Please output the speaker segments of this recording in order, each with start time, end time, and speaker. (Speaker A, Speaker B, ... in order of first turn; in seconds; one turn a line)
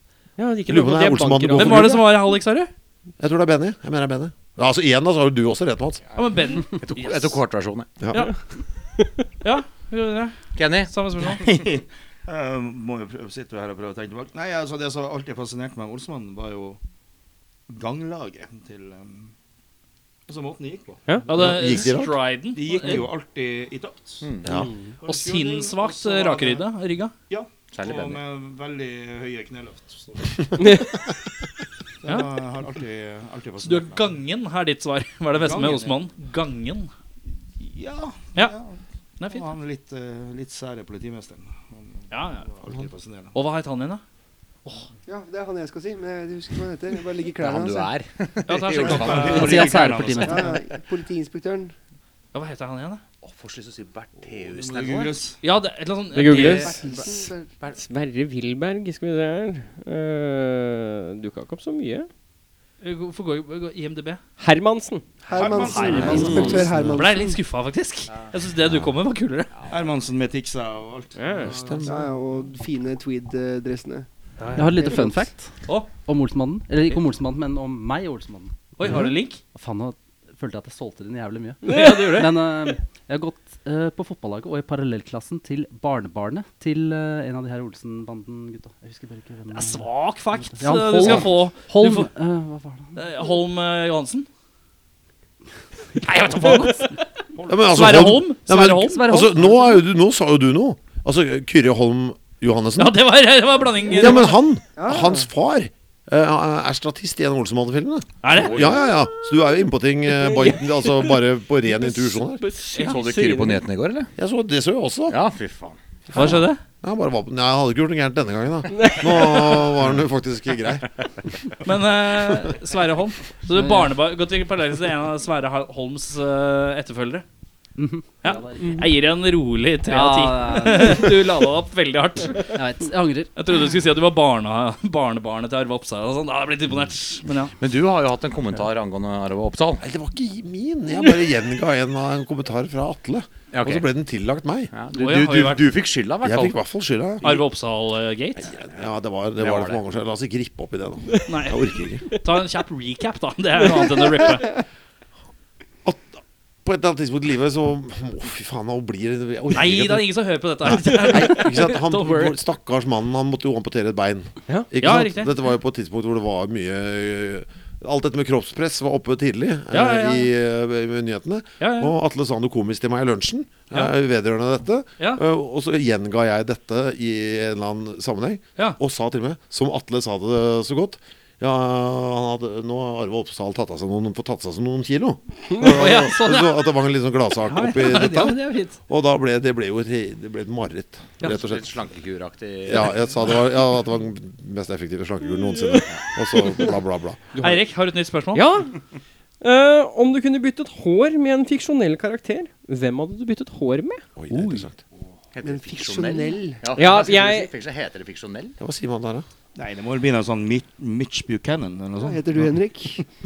Speaker A: 0.4-2.1
Speaker B: 0.7-2.2
Speaker C: 1.5-2.7
Speaker B: 3.2-6.0
Speaker C: 6.1-7.4
Speaker D: 6.5-7.9
Speaker C: 9.4-11.4
Speaker D: 10.6-10.9
Speaker E: 11.2-16.8
Speaker E: 17.7-19.3
Speaker E: 20.3-21.3
Speaker C: 21.3-23.1
Speaker B: 21.3-22.2
Speaker E: 22.5-24.5
Speaker D: 24.2-24.5
Speaker B: 24.4-24.7
Speaker A: 24.6-24.9
Speaker E: 25.0-26.6
Speaker C: 25.0-27.1
Speaker E: 27.3-30.4
Speaker D: 27.7-28.2
Speaker A: 30.6-30.9
Speaker E: 32.0-34.1
Speaker C: 32.0-32.3
Speaker C: 33.6-36.9
Speaker E: 35.4-36.0
Speaker E: 37.6-43.3
Speaker C: 39.2-39.5
Speaker C: 42.1-42.5
Speaker C: 43.3-44.0
Speaker F: 45.0-47.9
Speaker D: 47.4-49.9
Speaker C: 48.5-49.7
Speaker E: 48.7-50.5
Speaker G: 49.3-50.6
Speaker F: 50.2-51.7
Speaker C: 52.3-53.0
Speaker D: 53.2-55.2
Speaker E: 54.3-55.4
Speaker C: 55.4-56.8
Speaker A: 56.1-56.8
Speaker D: 56.3-57.8
Speaker F: 56.6-57.5
Speaker A: 57.7-62.1
Speaker C: 62.8-64.2
Speaker A: 64.4-65.0
Speaker F: 65.2-67.4
Speaker E: 65.3-66.6
Speaker C: 65.4-69.5
Speaker B: 66.1-66.9
Speaker A: 66.2-66.5
Speaker D: 68.1-68.3
Speaker D: 69.5-69.9
Speaker E: 69.7-72.0
Speaker A: 71.2-71.5
Speaker B: 71.4-72.0
Speaker F: 71.8-74.1
Speaker C: 74.4-74.8
Speaker G: 74.5-78.5
Speaker F: 74.6-75.3
Speaker C: 78.8-79.4
Speaker B: 78.8-79.1
Speaker G: 79.5-89.9
Speaker C: 81.6-82.3
Speaker A: 81.7-82.0
Speaker C: 89.5-92.1
Speaker G: 90.4-93.0
Speaker C: 92.9-94.3
Speaker C: 96.0-97.0
Speaker B: 97.5-103.0
Speaker C: 97.7-99.3
Speaker G: 99.2-99.8
Speaker C: 102.8-104.4
Speaker B: 103.9-112.4
Speaker F: 104.7-105.3
Speaker C: 108.2-108.8
Speaker D: 108.3-108.9
Speaker A: 110.2-113.6
Speaker C: 112.7-113.0
Speaker D: 112.8-114.1
Speaker B: 114.2-115.2
Speaker D: 115.1-115.8
Speaker B: 116.1-121.0
Speaker C: 116.1-116.6
Speaker A: 118.7-119.6
Speaker C: 121.6-127.2
Speaker G: 123.5-123.9
Speaker G: 127.8-128.9
Speaker C: 128.2-132.6
Speaker A: 128.6-128.8
Speaker G: 129.8-131.2
Speaker G: 132.5-133.3
Speaker C: 133.3-137.5
Speaker D: 137.6-139.8
Speaker B: 139.8-144.7
Speaker D: 143.5-143.9
Speaker D: 144.7-146.6
Speaker C: 144.9-145.7
Speaker B: 146.2-147.3
Speaker C: 147.2-148.5
Speaker B: 148.4-152.1
Speaker D: 149.4-149.8
Speaker C: 151.2-154.5
Speaker B: 155.8-160.1
Speaker C: 159.5-162.4
Speaker B: 160.6-191.7
Speaker C: 164.8-165.3
Speaker C: 169.7-170.3
Speaker C: 171.6-171.9
Speaker C: 185.6-186.7
Speaker C: 187.4-188.8
Speaker D: 191.2-193.3
Speaker B: 192.7-197.3
Speaker A: 197.3-197.6
Speaker C: 197.4-198.4
Speaker A: 198.3-198.8
Speaker A: 199.4-204.0
Speaker B: 204.2-204.8
Speaker D: 205.3-208.5
Speaker F: 205.4-206.7
Speaker A: 206.7-207.5
Speaker B: 208.6-209.2
Speaker E: 209.5-212.6
Speaker F: 212.0-213.1